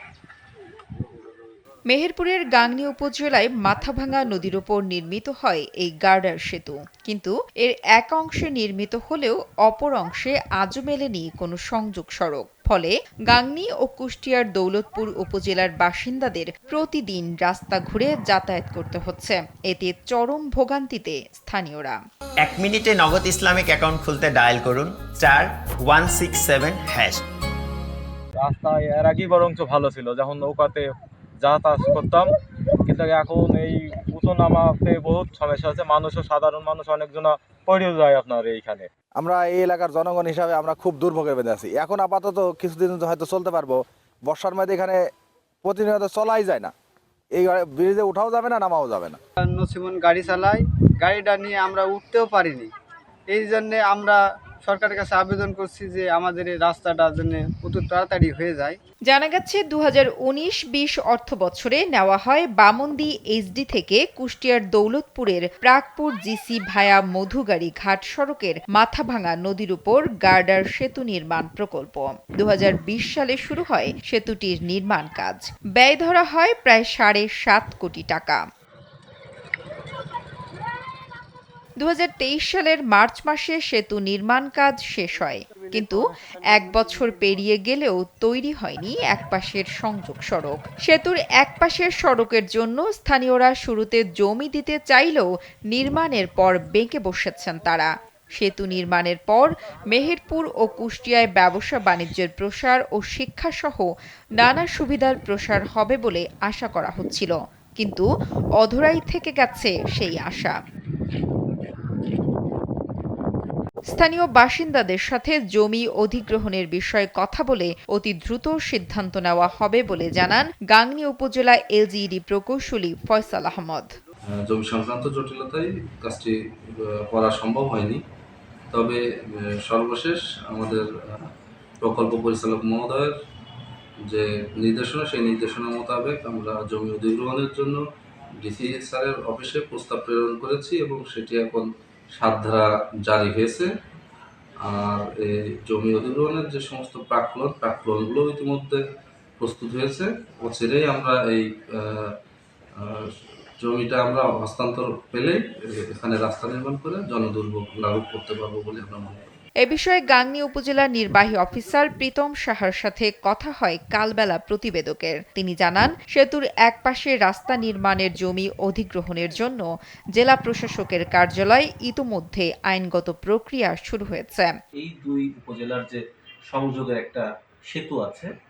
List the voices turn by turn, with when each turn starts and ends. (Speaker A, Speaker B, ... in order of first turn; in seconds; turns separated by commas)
Speaker A: 1.9-22.0, Speaker B: 22.4-27.2, Speaker C: 28.4-32.3, Speaker C: 32.9-38.9, Speaker D: 39.1-45.0, Speaker D: 45.6-46.7, Speaker D: 47.3-49.2, Speaker E: 49.4-52.7, Speaker E: 53.3-58.8, Speaker A: 59.1-78.4, Speaker A: 81.8-103.9, Speaker A: 104.4-108.0, Speaker A: 108.6-110.5, Speaker A: 113.9-123.9, Speaker F: 124.5-126.3, Speaker F: 127.1-128.0, Speaker F: 128.7-130.8, Speaker F: 131.8-133.1, Speaker F: 134.1-137.8, Speaker F: 138.4-141.6, Speaker F: 142.2-143.7, Speaker F: 144.6-148.8, Speaker F: 149.4-151.5, Speaker F: 153.6-159.2, Speaker A: 159.6-169.6, Speaker A: 170.2-174.5, Speaker G: 174.8-178.3